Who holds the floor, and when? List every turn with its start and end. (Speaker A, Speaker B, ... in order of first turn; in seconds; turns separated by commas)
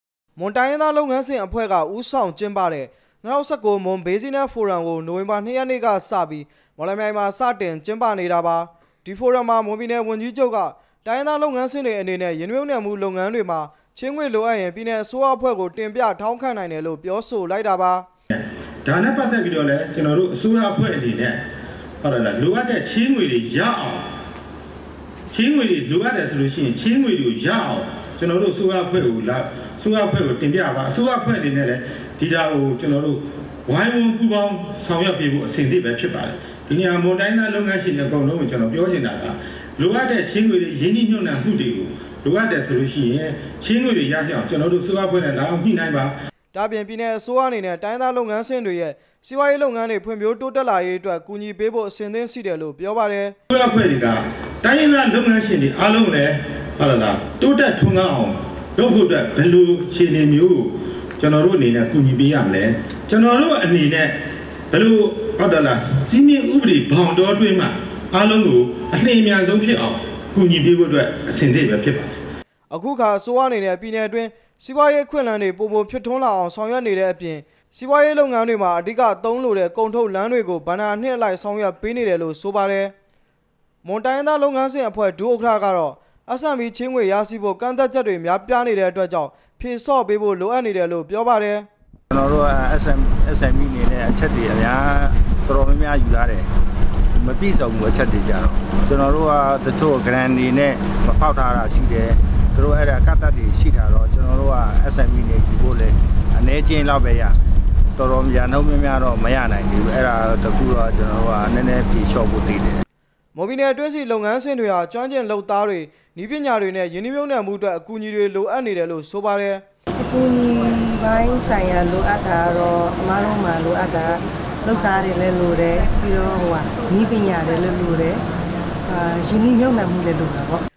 Speaker A: 0.4-18.1, Speaker B: 18.3-21.4, Speaker B: 22.0-24.1, Speaker B: 25.3-46.1, Speaker A: 46.5-53.4, Speaker B: 53.5-64.2, Speaker B: 64.7-72.2, Speaker A: 72.7-82.9, Speaker A: 83.8-91.7, Speaker C: 92.1-96.5, Speaker C: 97.2-107.4, Speaker C: 108.0-112.8, Speaker A: 113.3-119.6, Speaker D: 120.0-128.2, Speaker D: 128.8-130.6